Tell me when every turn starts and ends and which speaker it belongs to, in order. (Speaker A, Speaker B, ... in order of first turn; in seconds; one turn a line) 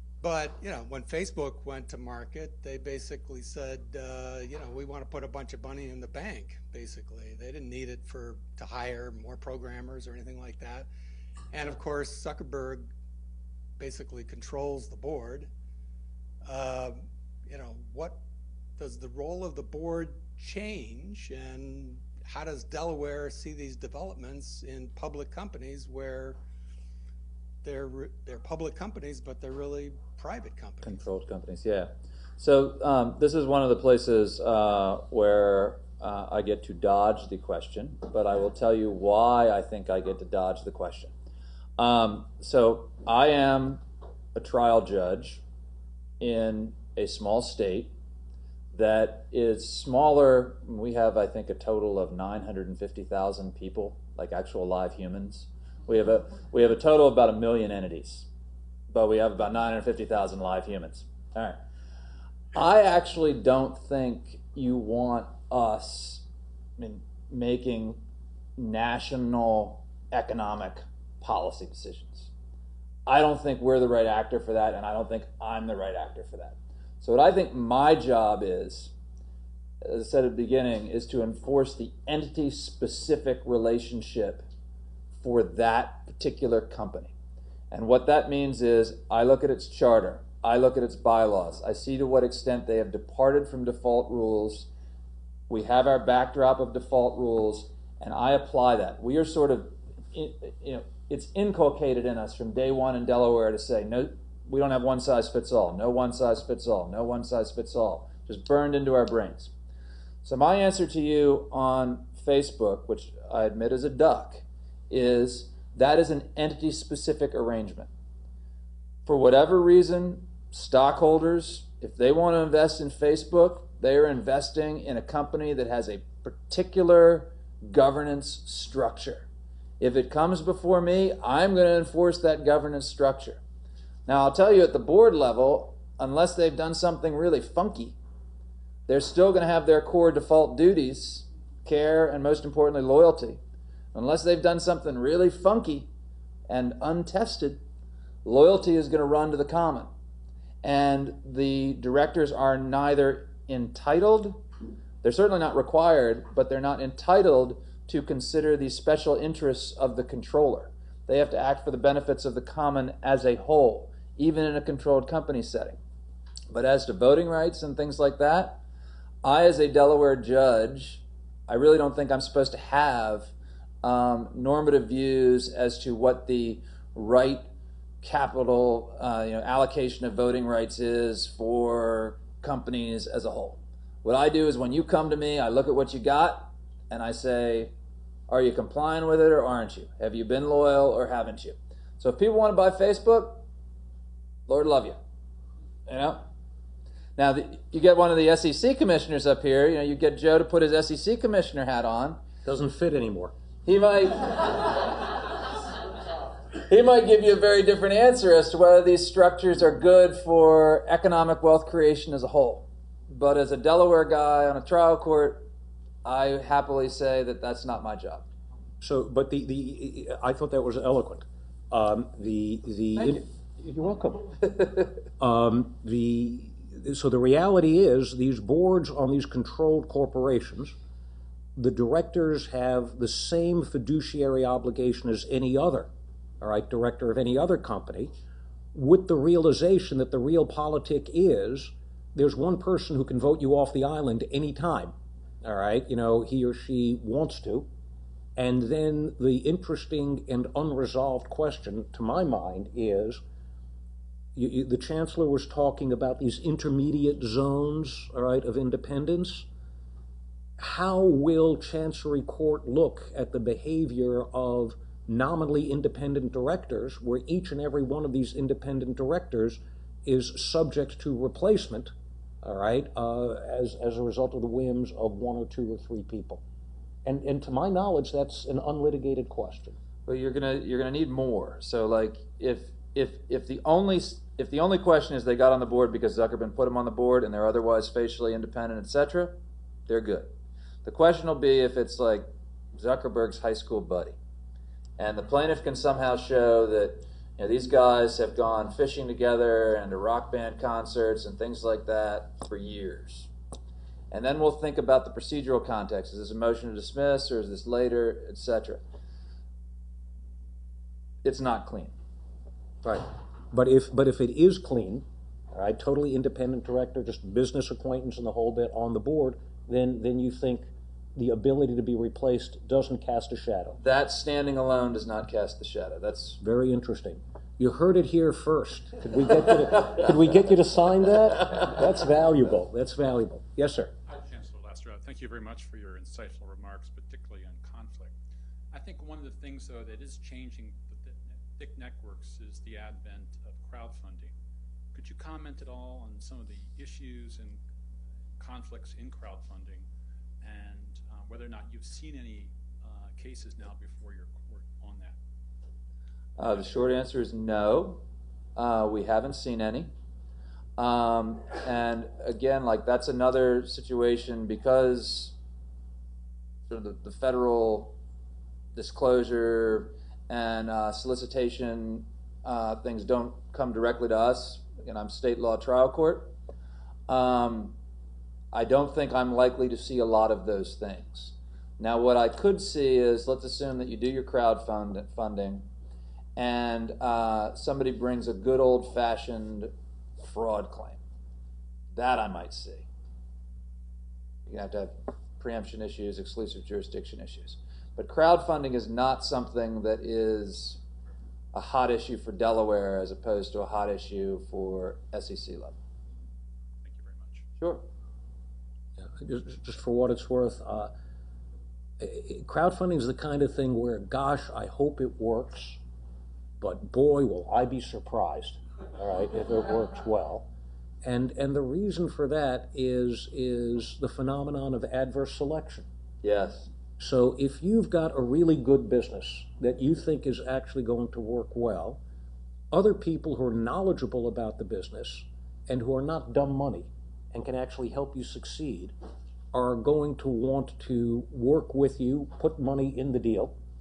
Speaker A: 0.2-10.9
Speaker A: 11.5-12.8
Speaker A: 13.8-15.5
Speaker A: 16.4-18.2
Speaker A: 18.8-26.4
Speaker A: 27.6-31.0
Speaker B: 30.8-41.1
Speaker B: 41.8-43.8
Speaker B: 44.3-45.4
Speaker B: 46.2-47.9
Speaker B: 48.7-58.3
Speaker B: 58.9-61.6
Speaker B: 62.5-66.2
Speaker B: 66.8-68.0
Speaker B: 68.6-72.3
Speaker B: 73.0-78.9
Speaker B: 79.8-84.4
Speaker B: 85.2-87.1
Speaker B: 87.7-94.7
Speaker B: 95.5-109.5
Speaker B: 110.2-117.9
Speaker B: 119.0-129.3
Speaker B: 129.8-133.4
Speaker B: 134.1-138.0
Speaker B: 138.9-143.4
Speaker B: 143.9-145.9
Speaker B: 146.5-147.6
Speaker B: 148.2-149.9
Speaker B: 150.6-154.4
Speaker B: 155.0-165.8
Speaker B: 166.5-168.6
Speaker B: 169.2-173.3
Speaker B: 173.8-177.5
Speaker B: 178.0-187.7
Speaker B: 188.3-193.4
Speaker B: 194.5-195.0
Speaker B: 195.9-196.3
Speaker B: 197.2-202.2
Speaker C: 202.4-203.3
Speaker B: 203.6-205.1
Speaker B: 206.6-215.5
Speaker B: 216.0-218.2
Speaker C: 218.8-224.4
Speaker B: 222.9-223.2
Speaker B: 224.5-224.8
Speaker C: 225.2-230.8
Speaker C: 231.5-235.9
Speaker C: 236.4-238.1
Speaker C: 238.7-247.7
Speaker C: 248.3-253.2
Speaker C: 254.3-259.5
Speaker C: 260.6-276.4
Speaker C: 277.0-279.8
Speaker B: 280.1-289.3
Speaker B: 289.9-290.3
Speaker B: 290.8-294.1
Speaker B: 295.0-303.3
Speaker B: 304.1-308.8
Speaker B: 311.2-311.9
Speaker C: 312.8-323.8
Speaker B: 323.8-326.4
Speaker C: 326.4-333.9
Speaker B: 329.8-330.0
Speaker D: 334.1-338.1
Speaker D: 338.7-344.3
Speaker D: 344.9-347.6
Speaker D: 348.4-349.9
Speaker D: 350.4-355.2
Speaker B: 356.4-358.0
Speaker B: 358.6-359.9
Speaker B: 360.8-365.3
Speaker B: 366.7-367.9
Speaker B: 368.7-376.3
Speaker B: 377.1-377.7
Speaker B: 378.5-385.7
Speaker B: 386.4-391.0
Speaker B: 391.9-392.9
Speaker B: 394.5-400.8
Speaker B: 401.5-405.7
Speaker D: 406.8-407.4
Speaker C: 409.0-410.9
Speaker C: 412.0-415.8
Speaker C: 416.6-420.5
Speaker C: 421.0-425.9
Speaker B: 426.2-426.7
Speaker C: 427.0-432.0
Speaker C: 432.7-438.9
Speaker C: 439.5-443.6